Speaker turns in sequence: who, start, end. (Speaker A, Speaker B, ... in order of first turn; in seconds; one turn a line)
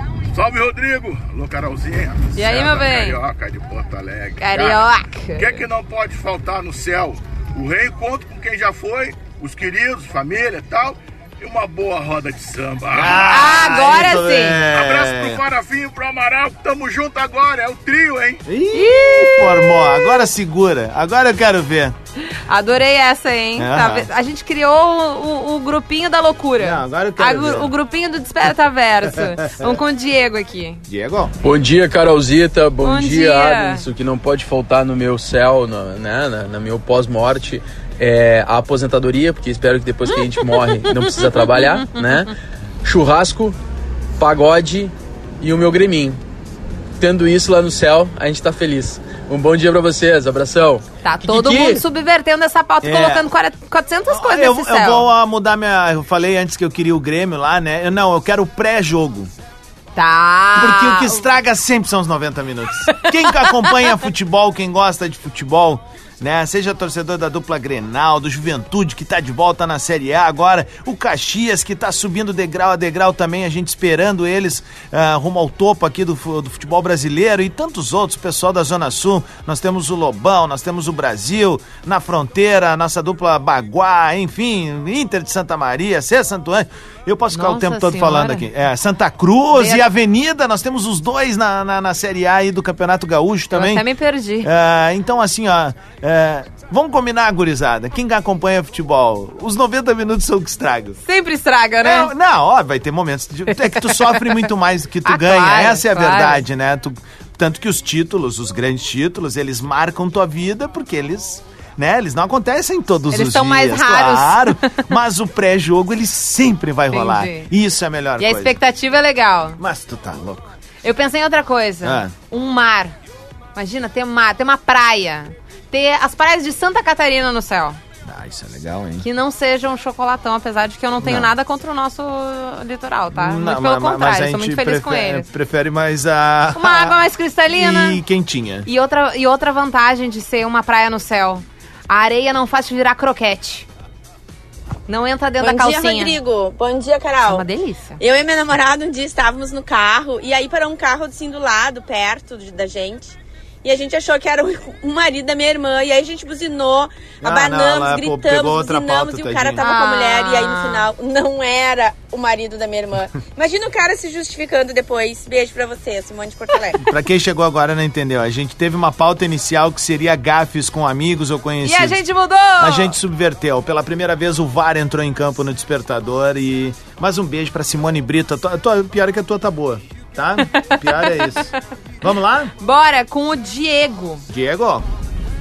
Speaker A: 0.3-4.8
Speaker B: 2.4-3.2
Speaker B: 4.4-5.6
Speaker A: 5.3-13.4
Speaker C: 12.9-15.4
Speaker B: 13.2-14.6
Speaker A: 14.7-18.4
Speaker C: 18.4-21.9
Speaker B: 18.7-20.2
Speaker B: 22.2-30.8
Speaker C: 23.6-24.1
Speaker C: 26.6-27.7
Speaker C: 29.1-29.8
Speaker C: 30.9-31.3
Speaker D: 31.4-42.3
Speaker B: 32.8-33.9
Speaker B: 40.1-41.9
Speaker D: 42.8-43.6
Speaker D: 44.2-46.2
Speaker D: 47.0-51.8
Speaker B: 51.0-55.1
Speaker C: 52.8-53.3
Speaker C: 54.1-59.3
Speaker B: 60.0-61.3
Speaker C: 60.5-93.8
Speaker B: 63.0-63.8
Speaker B: 87.3-88.5
Speaker B: 89.5-89.8
Speaker B: 93.5-94.5
Speaker C: 94.4-101.0
Speaker B: 101.0-102.1
Speaker C: 101.8-118.5
Speaker B: 103.5-104.4
Speaker B: 105.0-106.4
Speaker B: 113.1-114.8
Speaker B: 116.9-117.5
Speaker B: 118.2-119.6
Speaker C: 119.6-120.5
Speaker B: 120.8-122.9
Speaker C: 121.8-122.1
Speaker B: 123.5-127.8
Speaker C: 128.0-129.0
Speaker B: 129.0-135.3
Speaker C: 131.0-131.3
Speaker C: 133.1-138.7
Speaker B: 136.5-138.0
Speaker B: 138.7-143.7
Speaker B: 144.9-146.2
Speaker E: 145.4-147.4
Speaker B: 147.2-148.0
Speaker E: 148.0-166.8
Speaker C: 157.2-159.6
Speaker B: 159.6-160.9
Speaker C: 166.8-172.0
Speaker B: 171.6-172.9
Speaker C: 172.6-181.5
Speaker B: 180.5-181.3
Speaker C: 182.0-182.5
Speaker B: 182.6-184.2
Speaker C: 184.3-184.9